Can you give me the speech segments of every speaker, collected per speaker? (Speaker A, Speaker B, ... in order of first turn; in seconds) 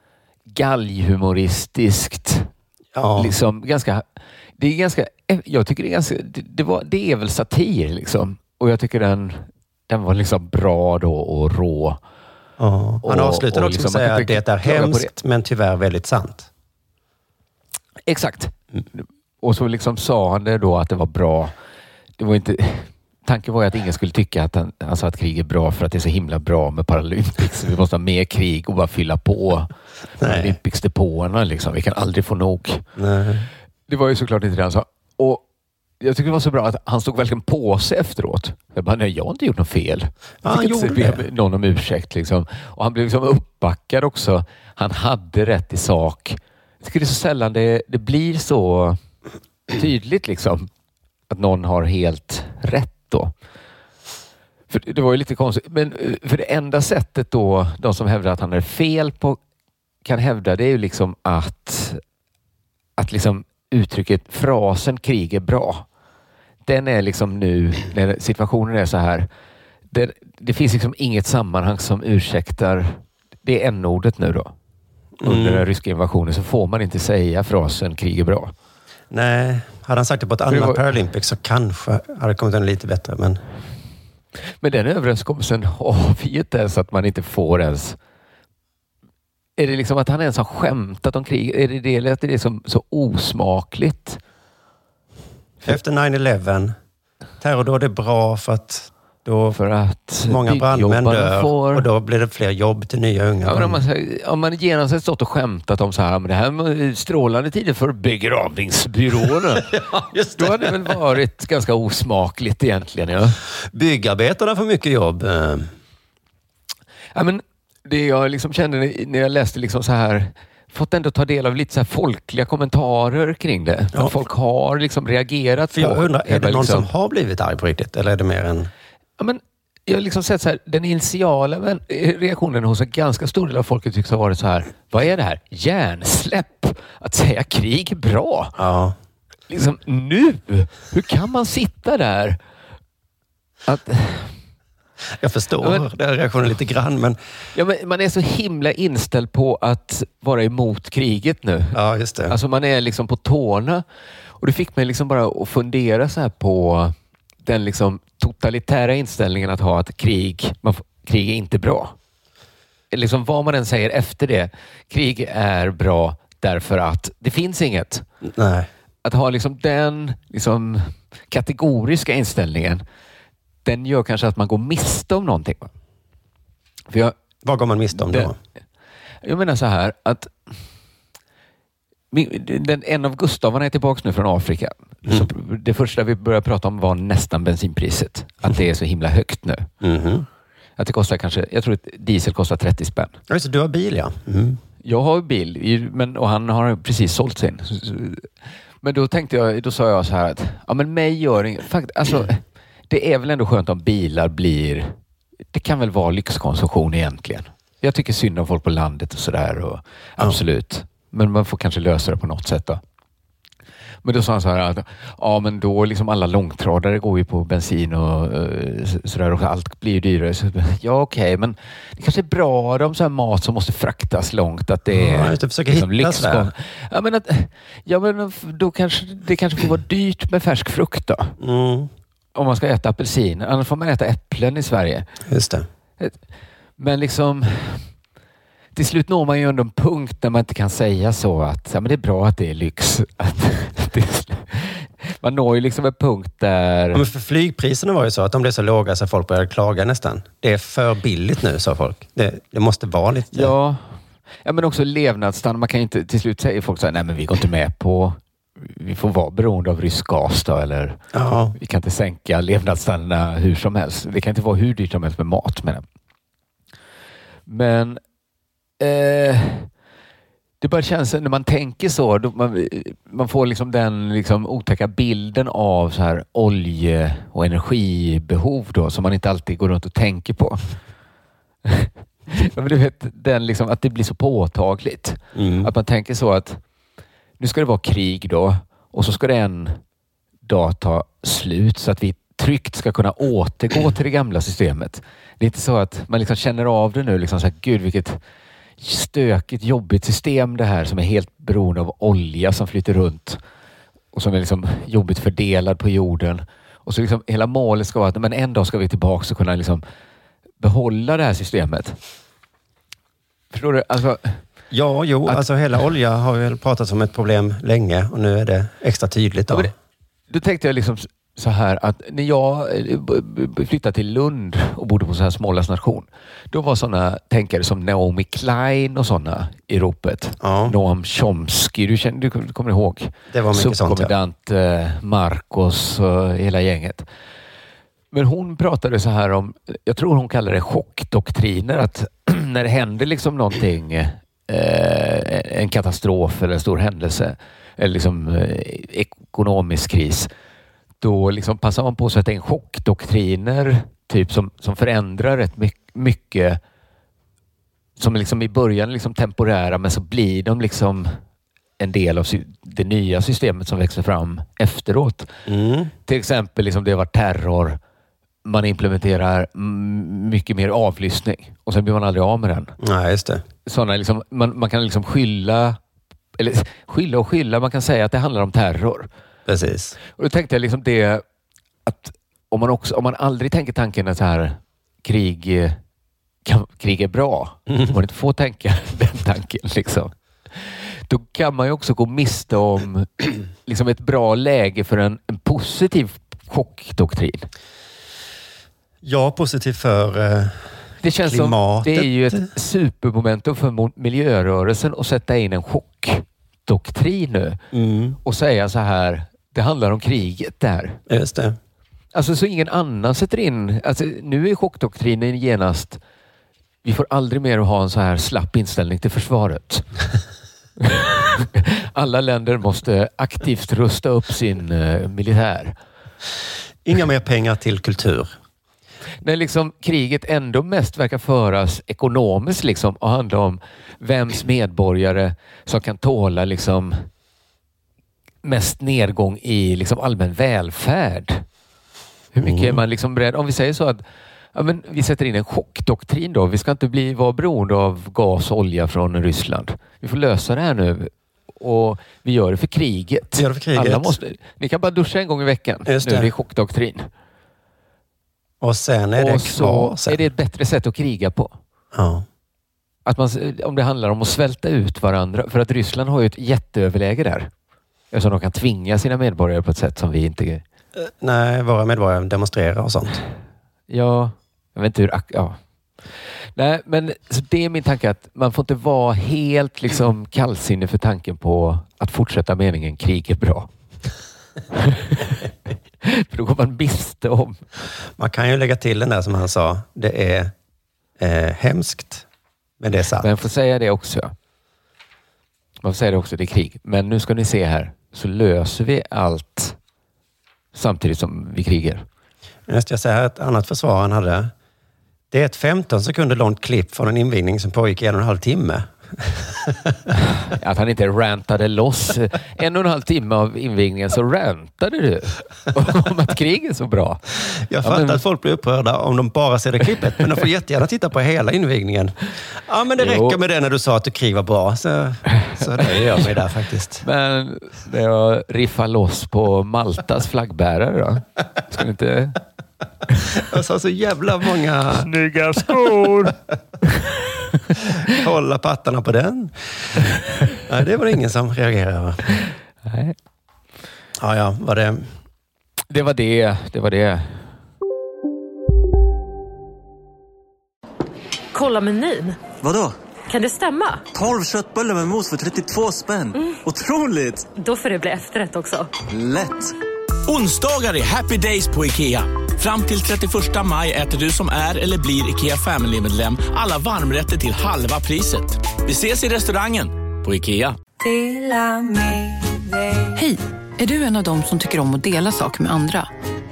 Speaker A: 0.5-2.5, 3.2-4.0, 4.6-12.0, 13.0-15.1, 18.1-21.5, 22.2-32.8, 33.9-35.4, 36.0-49.0, 49.7-50.7, 51.3-53.3, 54.7-59.4, 60.0-62.0, 63.0-65.8, 66.7-69.3, 69.9-74.5, 75.2-78.5, 80.5-80.8, 84.6-88.0, 89.6-94.2, 99.5-101.9, 103.4-109.7, 110.4-113.4, 117.1-126.9, 129.2-138.6, 139.5-142.4, 143.7-144.4, 145.6-145.8, 147.5-151.8, 152.3-153.8, 154.4-161.9, 162.9-168.0, 169.0-172.8, 173.6-175.7, 177.9-178.3, 179.2-180.5, 182.1-189.7, 190.8-193.2, 194.8-198.3, 198.8-204.9, 205.5-212.8, 214.0-231.3, 232.3-235.1, 236.8-237.8, 238.7-247.1, 253.3-261.0, 261.5-265.8, 267.5-268.0, 268.8-269.7, 270.6-280.6, 281.6-286.6, 287.4-289.8, 290.4-298.2, 298.8-303.4, 304.1-309.8, 310.6-312.0, 313.5-314.4, 320.3-337.1, 338.1-350.3, 351.0-356.6, 358.0-361.1, 361.8-365.3, 366.1-367.8, 368.4-372.7, 373.6-375.8, 376.4-379.1, 380.1-381.2, 381.9-385.8, 386.4-397.5, 401.0-407.6, 408.2-411.0, 412.1-416.0, 416.8-419.9, 420.8-425.8, 429.2-437.1, 438.4-441.4, 442.3-444.0, 444.5-457.1, 459.2-461.5, 463.1-467.5, 468.1-470.6, 473.9-475.6, 476.6-483.7, 484.7-485.5, 486.0-487.6, 493.2-494.3, 495.8-499.8, 500.7-502.0, 510.2-518.2, 523.0-523.4, 525.4-526.4, 527.0-532.4, 535.0-536.3, 542.9-543.1, 545.9-547.5
Speaker B: 2.9-3.4, 12.6-16.5, 30.2-30.6, 33.0-33.5, 40.4-41.2, 75.2-75.6, 79.1-83.4, 95.6-96.7, 97.4-99.6, 100.2-103.8, 109.7-111.0, 113.7-115.7, 125.7-128.7, 138.6-138.9, 145.1-147.2, 151.7-152.3, 168.2-168.7, 177.4-178.3, 189.8-190.2, 193.3-194.6, 224.9-226.5, 231.4-231.9, 235.3-235.7, 246.9-253.5, 261.1-261.5, 285.3-285.7, 314.7-319.7, 330.4-330.7, 333.3-334.1, 365.5-365.9, 372.8-373.4, 379.5-380.0, 399.0-402.5, 407.7-408.2, 411.1-411.6, 426.8-428.3, 442.4-442.8, 453.3-454.2, 455.9-456.3, 458.6-460.2, 461.9-462.2, 470.9-473.2, 488.2-490.5, 491.2-492.2, 492.8-493.3, 502.7-504.5, 505.3-510.0, 517.5-527.0, 533.3-536.3, 538.1-542.4, 544.2-545.1
Speaker C: 551.5-552.4, 553.3-554.0, 557.6-558.9
Speaker D: 552.6-552.9, 554.1-557.5, 559.1-559.7
Speaker E: 560.3-570.8
Speaker F: 573.1-576.1